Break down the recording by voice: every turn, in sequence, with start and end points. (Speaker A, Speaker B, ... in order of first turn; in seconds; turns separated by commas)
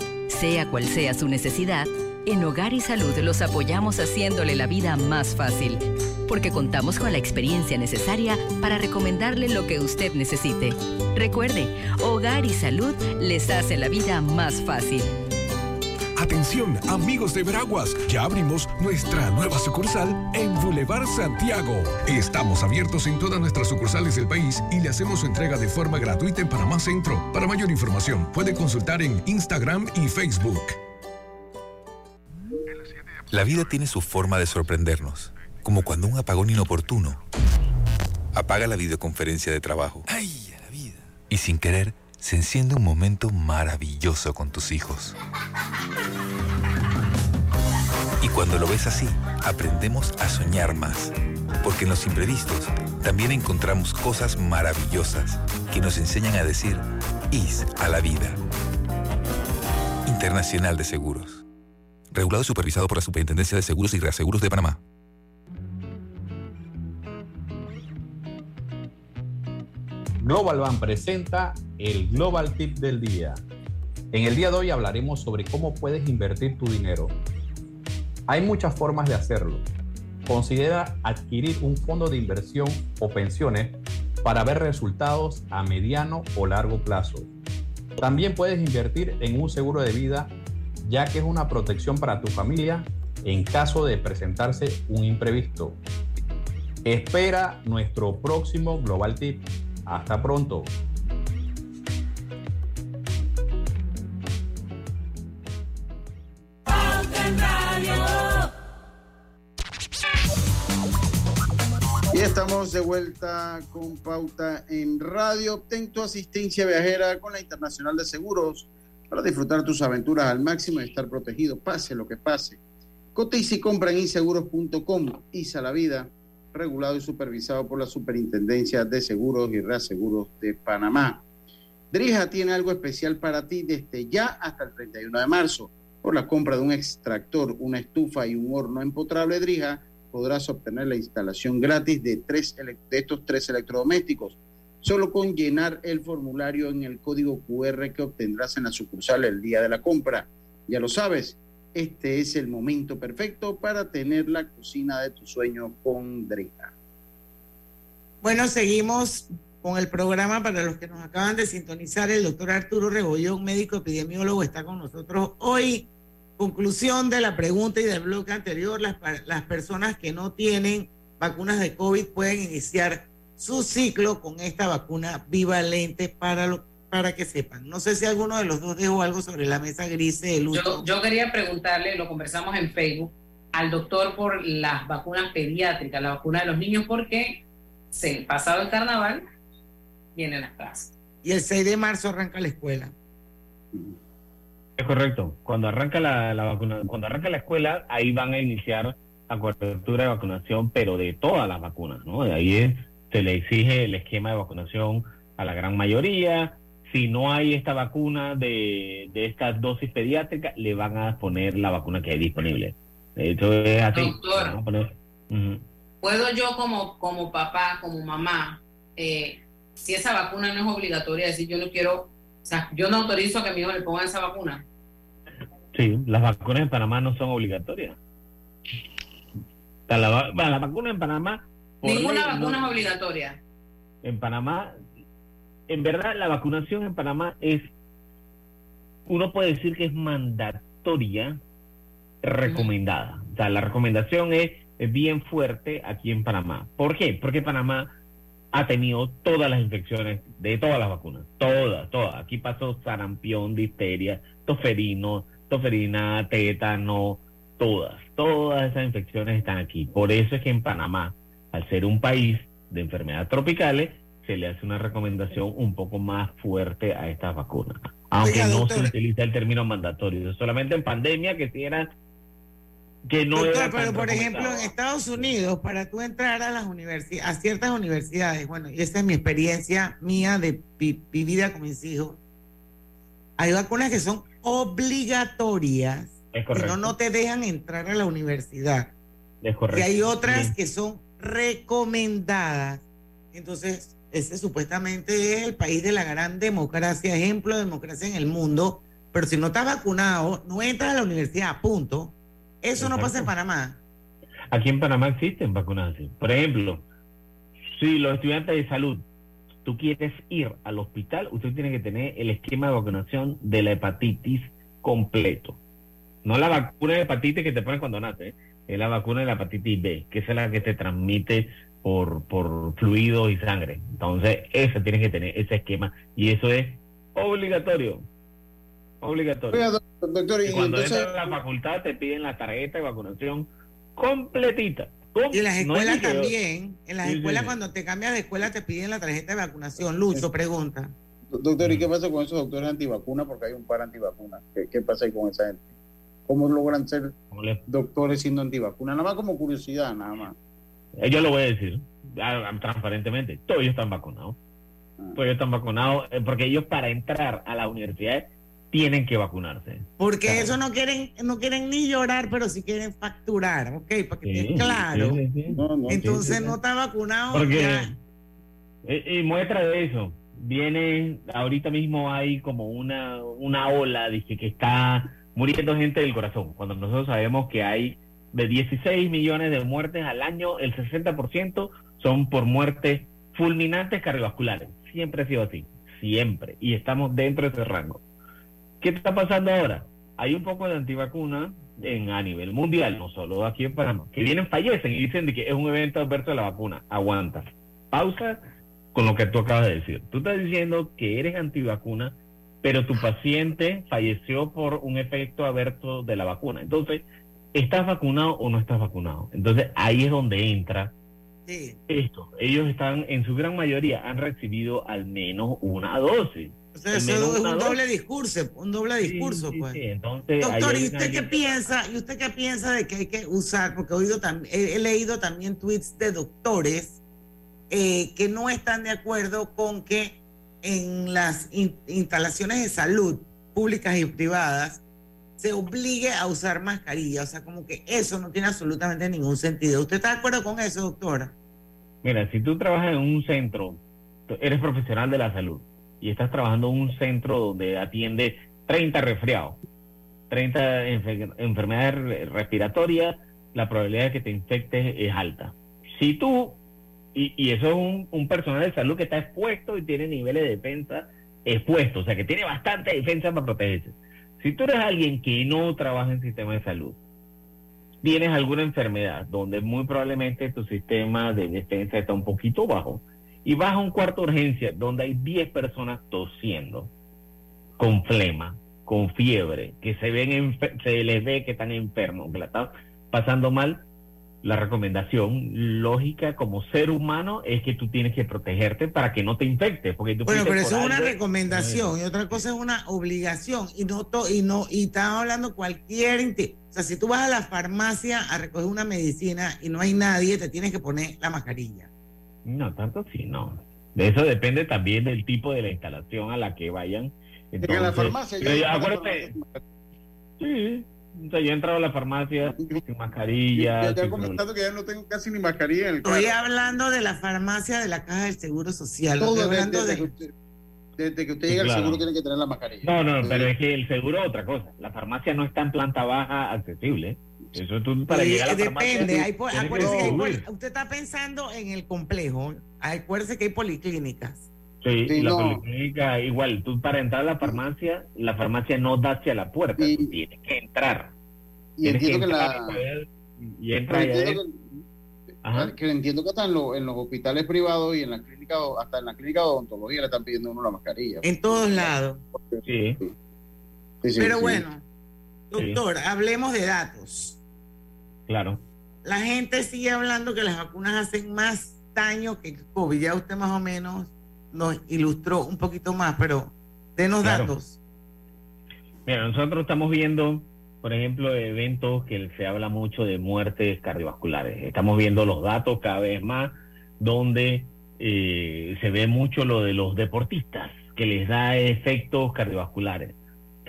Speaker A: 0.3-15.1, Speaker B: 16.1-30.8, Speaker C: 33.3-37.2, Speaker C: 38.3-40.0, Speaker C: 41.3-45.1, Speaker C: 48.2-58.4, Speaker C: 60.0-61.4, Speaker C: 62.1-64.8, Speaker D: 70.2-73.4, Speaker D: 74.1-77.1, Speaker D: 78.3-79.6, Speaker D: 80.3-87.3, Speaker D: 88.0-90.3, Speaker D: 90.8-95.8, Speaker D: 96.8-100.7, Speaker E: 112.1-122.6, Speaker E: 123.1-131.2, Speaker E: 131.9-156.7, Speaker F: 158.2-180.8, Speaker G: 180.5-189.2, Speaker G: 190.2-190.9, Speaker F: 191.2-192.9, Speaker H: 194.8-215.6, Speaker G: 213.9-214.6, Speaker G: 216.0-224.6, Speaker H: 225.7-228.0, Speaker H: 229.9-232.9, Speaker G: 231.8-233.4, Speaker H: 234.0-234.7, Speaker H: 235.7-237.7, Speaker H: 239.1-241.4, Speaker H: 242.2-247.9, Speaker H: 248.5-271.9, Speaker F: 268.2-268.9, Speaker H: 273.1-275.3, Speaker F: 273.3-282.2, Speaker F: 283.4-288.9, Speaker H: 286.3-286.9, Speaker H: 289.4-290.5, Speaker F: 289.7-303.8, Speaker H: 302.8-303.3, Speaker H: 304.5-306.8, Speaker H: 307.7-309.0, Speaker H: 309.6-315.6, Speaker H: 316.2-328.0, Speaker H: 329.0-329.6, Speaker E: 329.5-331.3, Speaker H: 330.4-336.3, Speaker F: 335.3-340.9, Speaker H: 337.0-337.6, Speaker E: 341.3-345.7, Speaker H: 341.6-341.9, Speaker E: 346.3-347.1, Speaker H: 347.3-347.6, Speaker E: 347.7-350.3, Speaker H: 351.0-354.4, Speaker H: 355.1-360.5, Speaker F: 360.0-365.2, Speaker H: 364.2-366.2, Speaker E: 365.5-366.5, Speaker F: 365.9-367.9, Speaker H: 367.3-367.9, Speaker H: 368.8-388.0, Speaker H: 388.8-398.4, Speaker H: 398.9-410.9, Speaker F: 411.5-411.8, Speaker H: 411.9-417.8, Speaker F: 416.7-419.8, Speaker H: 419.0-421.6, Speaker F: 420.4-427.0, Speaker F: 427.7-434.8, Speaker F: 435.4-441.3, Speaker H: 442.0-449.6, Speaker H: 450.3-456.6, Speaker H: 457.1-467.0, Speaker H: 468.0-476.9, Speaker H: 477.8-483.8, Speaker H: 484.4-492.4, Speaker F: 490.2-501.9, Speaker H: 502.4-509.3, Speaker E: 507.6-509.6, Speaker H: 510.4-514.4, Speaker E: 512.5-512.8, Speaker E: 513.5-516.4, Speaker F: 516.0-520.1, Speaker E: 519.2-520.3, Speaker E: 521.0-523.5, Speaker H: 521.5-522.0, Speaker H: 522.8-530.4, Speaker F: 528.1-534.5, Speaker E: 529.2-530.4, Speaker H: 534.8-541.1, Speaker E: 535.1-535.6, Speaker E: 539.8-540.1, Speaker E: 541.8-542.8, Speaker H: 541.8-544.4, Speaker E: 543.9-544.8, Speaker H: 545.4-545.7, Speaker E: 545.5-551.9, Speaker F: 551.2-552.2, Speaker E: 552.4-553.1, Speaker H: 552.6-553.0, Speaker E: 554.0-554.6, Speaker F: 554.2-554.8, Speaker F: 555.5-557.4, Speaker H: 555.5-555.8, Speaker H: 558.3-558.6, Speaker F: 559.0-567.8, Speaker H: 567.2-567.5, Speaker H: 569.0-583.1